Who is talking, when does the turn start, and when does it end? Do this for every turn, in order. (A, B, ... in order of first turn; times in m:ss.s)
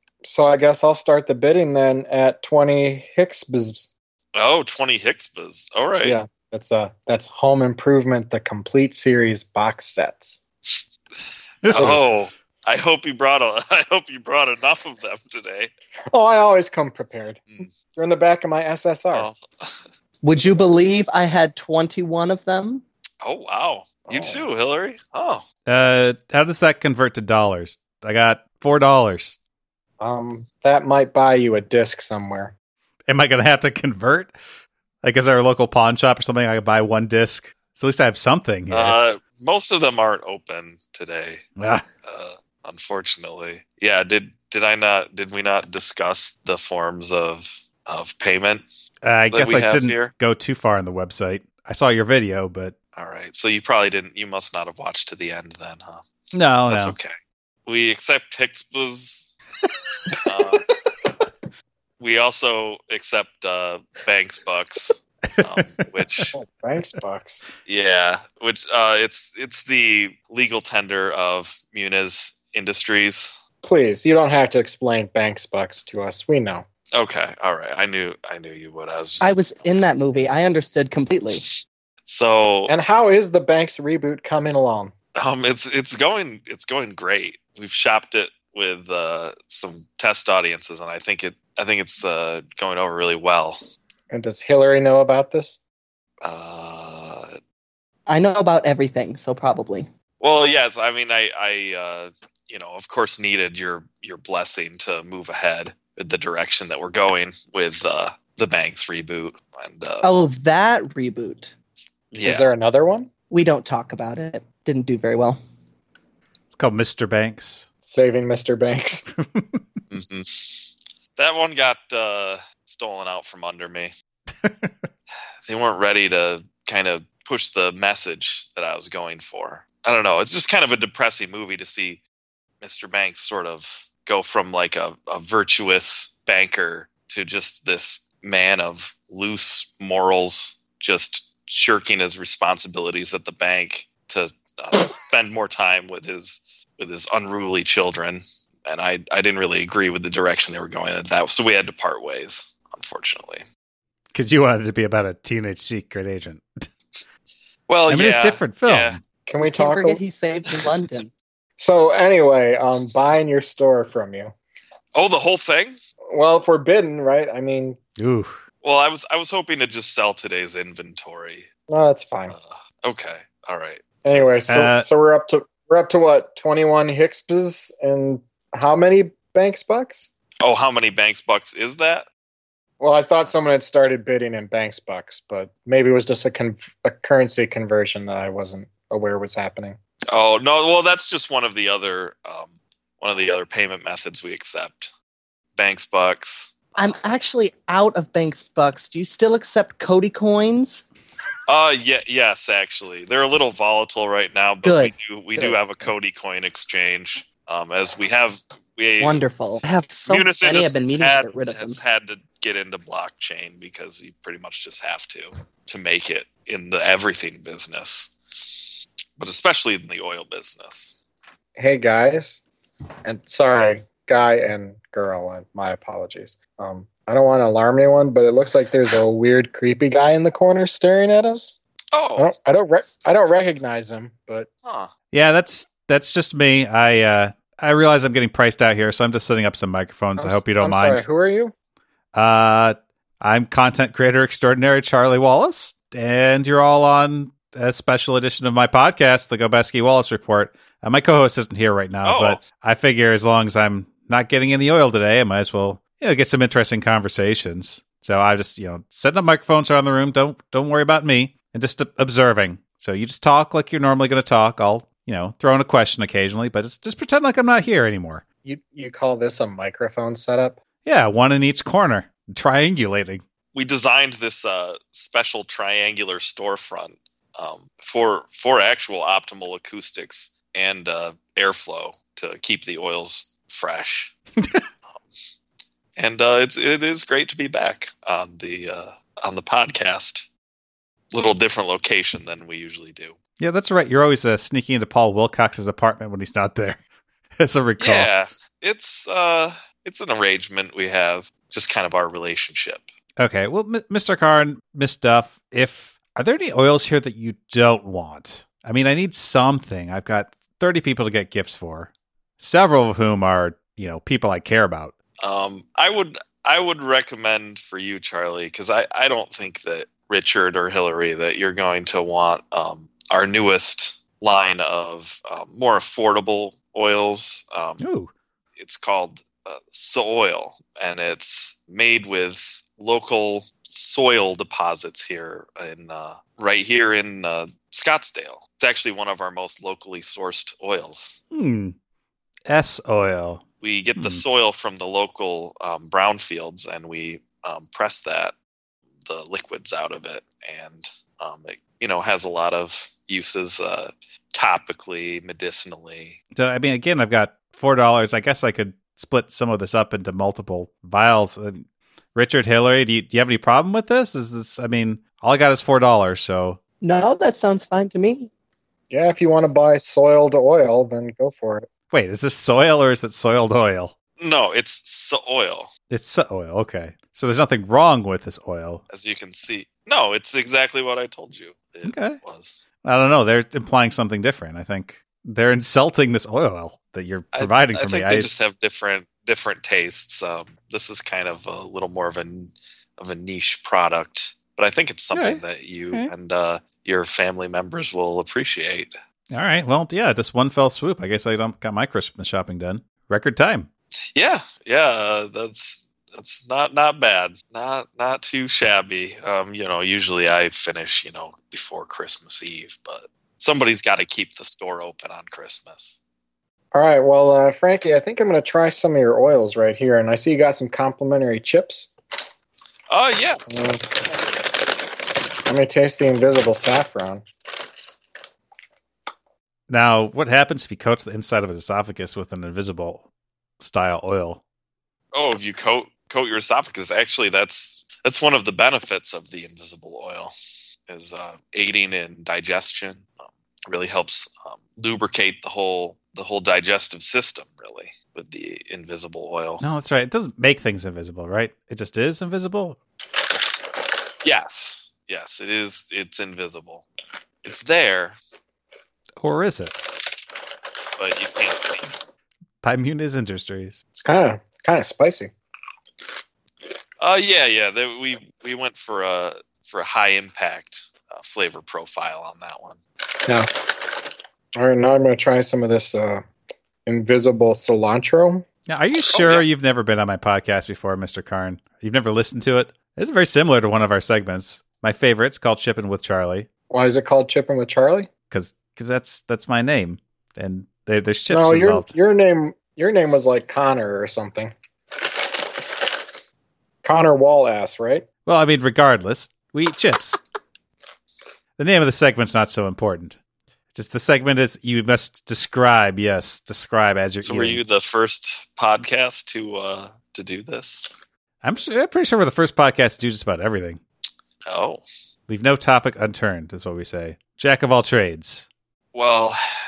0:00.2-0:03.9 A
0:04.3-0:06.2 B
0:06.0-0:10.4 A
0:11.6-0:12.1 C
0:11.6-0:15.7 B
0:11.7-0:12.0 A
0:16.1-0:19.3 A
0:19.1-0:19.8 B
0:20.2-0:22.8 D
0:23.2-0:25.4 B
0:24.1-0:24.4 A
0:25.7-0:29.4 C
0:30.0-0:32.5 A
0:33.1-0:34.3 C
0:35.0-0:39.0 C
0:38.7-0:41.5 B
0:41.6-0:41.8 C
0:42.0-0:48.6 B
0:49.0-0:52.7 C
0:49.3-0:50.1 B
0:53.0-0:56.0 B
0:56.3-0:57.0 C
0:56.7-0:57.1 B
0:57.6-0:59.3 B
1:00.2-1:00.7 B
1:02.0-1:06.3 B
1:05.4-1:05.6 C
1:06.3-1:07.4 A
1:07.6-1:13.4 B
1:13.6-1:16.6 A
1:16.9-1:19.9 B
1:19.2-1:21.4 D
1:22.0-1:22.7 B
1:22.7-1:24.9 A
1:25.2-1:33.6 B
1:34.1-1:35.6 A
1:36.2-1:37.3 B
1:38.1-1:39.9 D
1:40.2-1:50.2 B
1:50.0-1:51.5 D
1:52.1-1:52.5 B
1:52.2-1:53.1 A
1:53.3-1:55.4 D
1:56.5-1:57.6 C
1:57.8-1:59.1 A
1:59.2-1:59.6 C
1:59.9-2:03.9 B
2:04.4-2:04.9 C
2:05.4-2:12.0 B
2:12.6-2:33.4 B
2:34.1-2:36.4 C
2:37.7-2:39.0 B
2:37.9-2:39.0 C
2:39.2-2:40.0 A
2:39.4-2:41.1 D
2:41.6-2:44.3 A
2:44.9-2:45.8 B
2:46.1-2:47.8 A
2:48.0-2:48.4 C
2:48.6-2:51.5 B
2:51.7-2:52.4 A
2:52.3-2:54.5 B
2:54.0-3:00.1 A
2:54.5-2:54.9 C
3:00.4-3:02.1 B
3:02.8-3:09.8 A
3:10.1-3:14.9 B
3:15.6-3:17.0 B
3:16.8-3:20.8 D
3:21.5-3:29.2 B
3:24.6-3:25.6 D
3:29.0-3:31.8 D
3:30.0-3:38.1 B
3:39.2-3:41.0 B
3:41.6-3:42.4 A
3:43.0-3:51.6 A
3:51.9-3:52.3 B
3:52.2-3:54.5 A
3:54.6-3:54.9 B
3:55.1-4:01.0 C
4:00.2-4:01.5 A
4:02.1-4:28.2 C
4:12.0-4:12.4 B
4:28.4-4:30.6 A
4:30.8-4:33.2 C
4:33.5-4:44.1 B
4:46.0-4:50.3 B
4:51.1-4:53.2 B
4:53.4-4:56.8 C
4:57.4-4:58.1 C
4:57.8-5:02.9 B
5:03.2-5:14.9 C
5:15.2-5:27.8 B
5:27.8-5:28.1 C
5:28.6-5:41.2 B
5:41.3-5:41.7 C
5:42.5-5:43.4 C
5:43.6-5:48.3 B
5:44.0-5:44.2 C
5:49.0-5:56.2 B
5:56.3-6:06.6 C
6:06.8-6:08.3 D
6:08.9-6:11.6 A
6:11.9-6:13.9 C
6:14.2-6:15.7 B
6:15.9-6:18.8 C
6:18.9-6:22.6 B
6:21.8-6:22.2 C
6:22.8-6:28.3 C
6:27.3-6:38.9 B
6:35.1-6:36.1 C
6:39.3-6:43.7 C
6:44.1-6:56.0 B
6:56.7-7:01.9 A
7:02.9-7:03.4 B
7:03.5-7:04.2 A
7:05.5-7:07.2 A
7:09.7-7:13.0 C
7:13.6-7:14.4 C
7:15.1-7:20.3 B
7:20.9-7:29.6 B
7:29.6-7:32.8 C
7:34.2-7:36.8 B
7:37.4-7:38.2 B
7:39.2-7:39.8 C
7:41.0-7:42.0 B
7:42.6-7:43.8 C
7:44.0-7:45.3 A
7:47.0-7:52.8 B
7:54.6-7:56.2 A
7:56.8-7:58.4 A
7:58.7-8:06.5 C
7:59.1-7:59.4 B
8:06.7-8:08.1 A
8:08.3-8:11.9 C
8:11.3-8:14.5 A
8:16.8-8:18.0 A
8:18.2-8:20.2 C
8:21.6-8:23.2 C
8:23.7-8:27.6 C
8:27.2-8:31.0 B
8:31.4-8:33.8 C
8:34.5-8:34.8 B
8:35.3-8:38.4 C
8:38.9-8:39.4 B